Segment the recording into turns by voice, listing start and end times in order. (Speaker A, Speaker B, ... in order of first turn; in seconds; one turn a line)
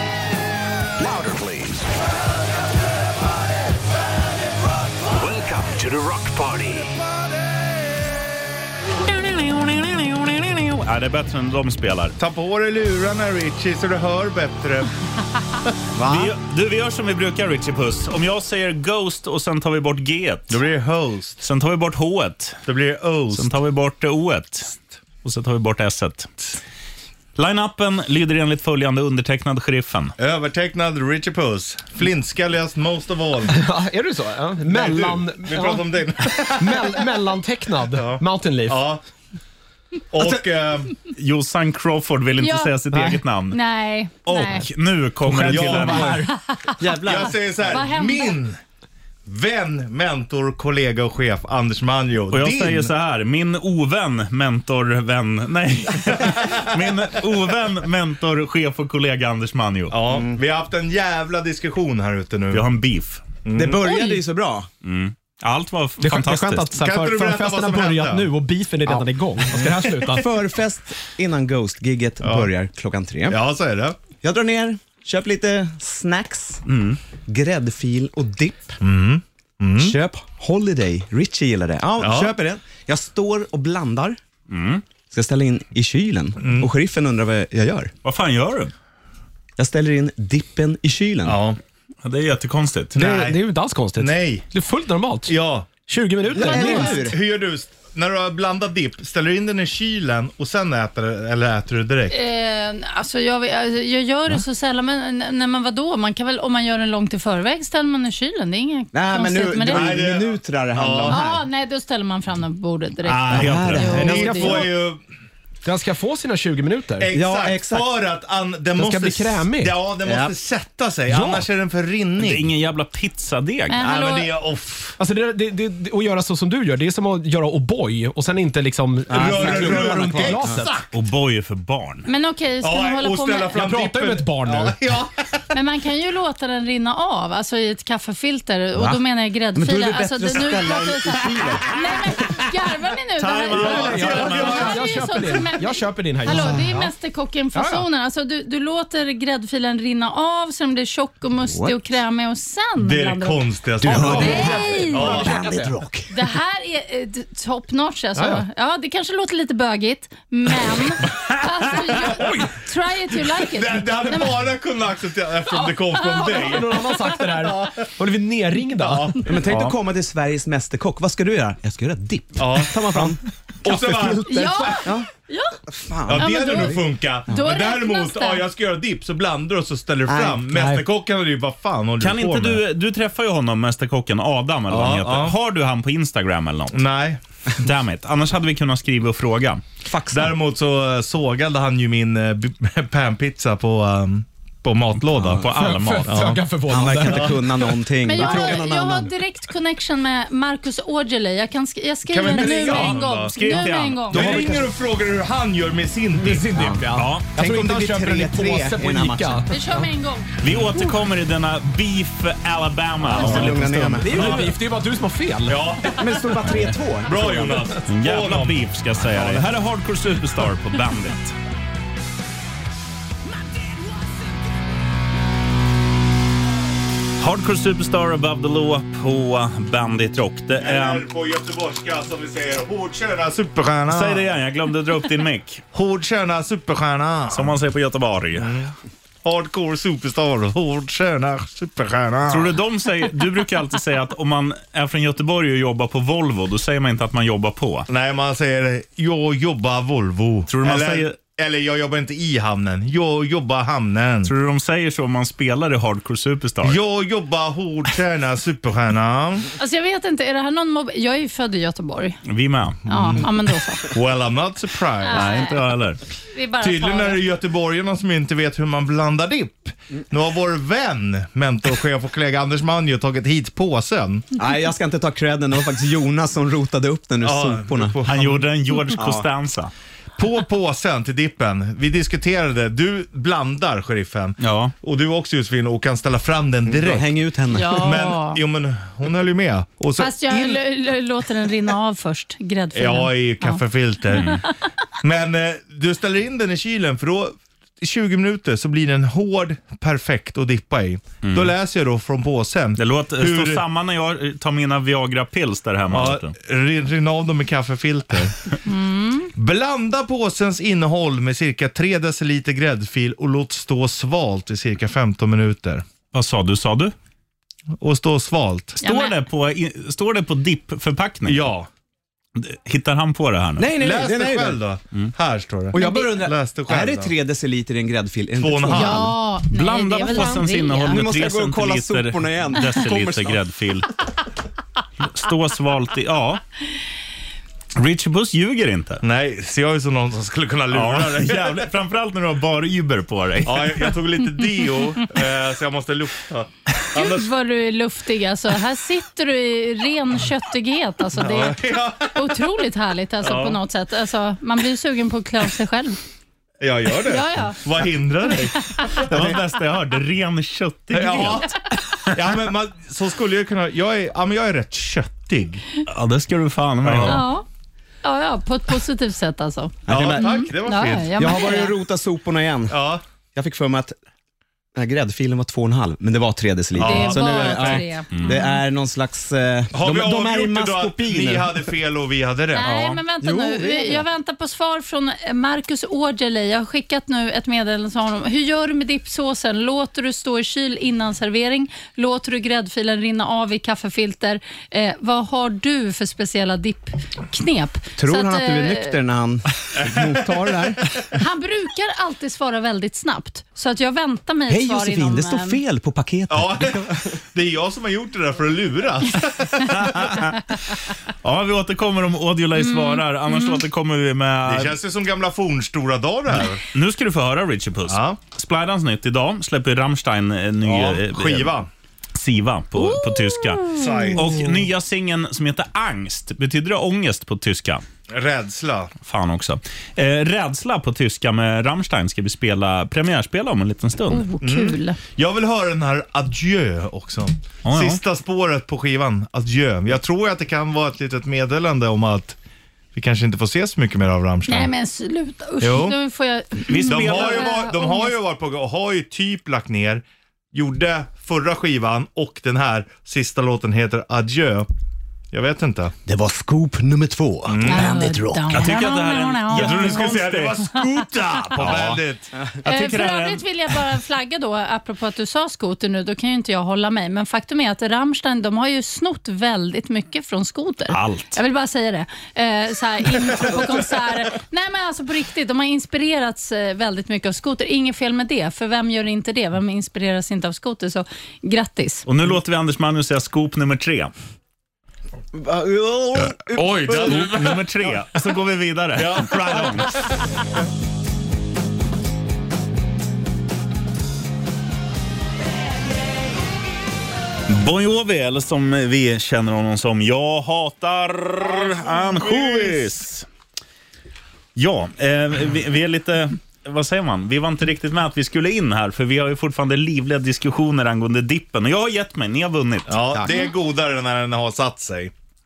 Speaker A: 1.0-1.9
Speaker A: 5.1-7.0
Speaker B: 9.1-12.2
Speaker C: 12.2-14.9
Speaker D: 16.0-16.3
Speaker B: 16.1-20.6
Speaker C: 20.5-21.4
Speaker B: 21.4-22.6
Speaker C: 22.7-23.5
Speaker B: 23.3-26.3
Speaker B: 27.4-30.1
Speaker C: 30.2-33.6
Speaker E: 33.5-35.9
Speaker C: 34.7-37.1
Speaker E: 36.4-38.8
Speaker C: 37.9-39.0
Speaker C: 40.1-40.9
Speaker B: 41.1-43.6
Speaker F: 42.4-42.7
Speaker F: 43.5-44.7
Speaker B: 44.5-46.1
Speaker E: 45.3-46.3
Speaker C: 45.3-46.2
Speaker D: 45.5-46.2
Speaker D: 46.8-47.4
Speaker C: 46.9-48.6
Speaker F: 47.6-48.4
Speaker C: 49.2-52.9
Speaker B: 52.3-60.0
Speaker C: 56.2-56.8
Speaker C: 59.9-62.6
Speaker D: 60.1-60.4
Speaker B: 62.5-63.2
Speaker C: 63.5-63.8
Speaker D: 63.5-64.7
Speaker F: 63.9-64.1
Speaker B: 64.8-66.7
Speaker E: 66.0-70.3
Speaker C: 66.8-68.3
Speaker D: 70.0-73.4
Speaker C: 72.2-72.5
Speaker C: 73.3-74.0
Speaker D: 74.2-76.7
Speaker B: 76.7-77.0
Speaker D: 77.3-78.8
Speaker C: 78.8-80.0
Speaker D: 79.8-84.2
Speaker C: 82.0-82.4
Speaker B: 84.5-84.8
Speaker D: 85.1-87.9
Speaker C: 86.4-86.7
Speaker B: 88.0-88.7
Speaker D: 89.6-91.4
Speaker C: 91.3-91.6
Speaker B: 92.0-93.0
Speaker C: 93.0-93.4
Speaker E: 93.0-95.3
Speaker C: 94.0-94.5
Speaker C: 95.3-95.7
Speaker E: 95.9-97.1
Speaker D: 96.3-97.2
Speaker C: 96.4-102.2
Speaker F: 96.4-97.1
Speaker F: 102.1-110.0
Speaker D: 108.9-111.4
Speaker C: 109.7-111.2
Speaker F: 111.1-114.7
Speaker B: 113.0-114.0
Speaker D: 113.3-114.7
Speaker C: 113.5-115.0
Speaker E: 115.7-117.1
Speaker C: 117.0-122.5
Speaker D: 117.1-117.9
Speaker E: 118.8-119.8
Speaker D: 120.0-120.3
Speaker E: 121.1-121.4
Speaker B: 122.2-123.8
Speaker F: 123.7-124.3
Speaker C: 123.8-125.0
Speaker E: 125.0-130.9
Speaker D: 129.1-130.7
Speaker C: 129.1-130.7
Speaker B: 130.9-132.1
Speaker F: 132.1-133.6
Speaker C: 132.6-135.3
Speaker E: 133.5-134.8
Speaker F: 135.5-155.3
Speaker D: 138.8-139.0
Speaker D: 139.5-141.8
Speaker B: 143.2-144.8
Speaker E: 143.5-146.9
Speaker C: 143.6-144.8
Speaker D: 146.2-146.8
Speaker E: 147.5-147.8
Speaker D: 151.4-151.8
Speaker C: 152.8-155.4
Speaker D: 153.8-156.2
Speaker E: 154.0-155.7
Speaker F: 156.1-164.3
Speaker E: 158.2-158.4
Speaker C: 163.5-166.8
Speaker F: 165.5-167.2
Speaker E: 166.4-169.3
Speaker C: 167.4-167.8
Speaker C: 168.8-169.2
Speaker D: 169.2-175.1
Speaker C: 172.4-174.3
Speaker F: 174.3-175.6
Speaker D: 175.7-176.8
Speaker C: 176.1-182.6
Speaker F: 176.2-178.4
Speaker D: 180.1-180.8
Speaker B: 182.0-186.8
Speaker C: 184.7-185.3
Speaker C: 186.7-187.2
Speaker B: 187.6-189.6
Speaker D: 189.9-190.3
Speaker C: 190.1-195.4
Speaker B: 195.2-196.2
Speaker E: 195.5-197.7
Speaker C: 196.1-196.4
Speaker D: 196.7-199.1
Speaker C: 197.0-197.4
Speaker F: 198.1-204.3
Speaker C: 202.1-206.8
Speaker B: 202.4-204.2
Speaker E: 204.1-204.6
Speaker D: 204.2-204.7
Speaker E: 206.2-209.5
Speaker B: 207.0-207.3
Speaker D: 207.4-209.4
Speaker F: 209.5-210.9
Speaker B: 210.4-214.5
Speaker D: 213.1-214.6
Speaker E: 213.2-213.5
Speaker E: 214.0-215.7
Speaker C: 215.5-216.0
Speaker D: 216.0-217.7
Speaker C: 217.0-219.4
Speaker B: 217.9-221.3
Speaker B: 227.2-231.1
Speaker C: 230.6-234.3
Speaker B: 233.9-235.6
Speaker C: 235.7-237.6
Speaker B: 237.3-238.6
Speaker C: 238.4-238.7
Speaker C: 239.2-242.6
Speaker B: 242.3-247.9
Speaker C: 247.9-254.3
Speaker B: 250.5-251.2
Speaker B: 254.2-256.8
Speaker C: 256.6-259.5
Speaker F: 259.6-262.2
Speaker B: 262.3-262.8
Speaker F: 262.9-263.9
Speaker C: 262.9-263.3
Speaker C: 263.9-265.5
Speaker F: 265.1-265.6
Speaker B: 265.1-266.0
Speaker F: 266.3-267.2
Speaker C: 266.6-274.2
Speaker D: 274.4-278.1
Speaker C: 277.2-278.5
Speaker B: 278.1-279.7
Speaker D: 279.0-279.3
Speaker C: 280.2-287.1
Speaker B: 284.4-284.7
Speaker D: 286.7-288.0
Speaker F: 287.5-288.4
Speaker C: 287.8-290.6
Speaker F: 290.0-293.6
Speaker C: 292.8-294.3
Speaker C: 295.0-303.6
Speaker B: 301.2-301.5
Speaker B: 302.8-306.3
Speaker C: 305.9-308.4
Speaker F: 308.7-309.3
Speaker C: 309.4-315.9
Speaker B: 316.1-316.9
Speaker C: 317.8-318.8
Speaker F: 318.8-319.1
Speaker B: 318.8-321.5
Speaker C: 321.3-321.7
Speaker B: 322.4-323.7
Speaker D: 323.6-324.6
Speaker C: 323.8-327.1
Speaker D: 325.7-329.1
Speaker C: 328.4-329.1
Speaker F: 328.7-331.1
Speaker B: 329.5-333.9
Speaker D: 330.9-333.2
Speaker C: 332.9-333.3
Speaker B: 335.0-336.4
Speaker B: 337.8-339.0
Speaker C: 339.0-341.7
Speaker B: 340.7-343.9
Speaker C: 343.4-347.3
Speaker F: 346.9-351.6
Speaker C: 351.2-352.2
Speaker F: 352.1-356.0
Speaker C: 353.2-353.6
Speaker C: 356.6-359.5
Speaker F: 357.0-357.6
Speaker B: 358.9-361.5
Speaker C: 360.9-365.6
Speaker B: 365.9-367.2
Speaker C: 366.8-367.2
Speaker F: 367.1-367.4
Speaker F: 368.0-371.7
Speaker D: 369.9-370.4
Speaker C: 369.9-371.3
Speaker D: 371.2-372.8
Speaker C: 372.7-373.0
Speaker D: 373.4-374.0
Speaker D: 374.8-381.6
Speaker C: 376.8-377.8
Speaker F: 376.8-378.6
Speaker C: 379.7-382.9
Speaker F: 382.6-399.0
Speaker D: 383.2-384.1
Speaker D: 398.0-401.1
Speaker C: 399.8-400.2
Speaker F: 401.1-405.6
Speaker D: 404.5-407.0
Speaker C: 406.3-410.1
Speaker B: 409.8-410.4
Speaker B: 411.2-414.8
Speaker F: 412.6-413.6
Speaker C: 414.4-416.6
Speaker B: 416.7-421.5
Speaker C: 417.9-418.2
Speaker C: 420.6-421.7
Speaker B: 422.2-427.8
Speaker F: 423.1-423.8
Speaker C: 423.8-424.3
Speaker C: 428.1-428.9
Speaker B: 429.1-434.3
Speaker F: 434.1-435.0
Speaker C: 434.4-442.4
Speaker B: 437.6-438.0
Speaker C: 442.9-444.7
Speaker F: 444.5-448.1
Speaker C: 445.6-446.0
Speaker B: 446.7-447.6
Speaker C: 446.9-454.7
Speaker C: 455.3-455.9
Speaker D: 456.1-458.8
Speaker C: 457.4-458.0
Speaker F: 457.6-460.0
Speaker B: 458.5-460.8
Speaker C: 459.5-462.3
Speaker B: 461.6-462.0
Speaker B: 462.6-463.4
Speaker F: 462.6-482.0
Speaker B: 470.9-471.3
Speaker B: 482.1-484.1
Speaker D: 485.3-487.1
Speaker C: 486.5-487.8
Speaker B: 486.9-489.9
Speaker C: 488.9-490.1
Speaker B: 497.5-503.3
Speaker C: 501.5-502.8
Speaker B: 504.6-513.0
Speaker C: 512.9-515.1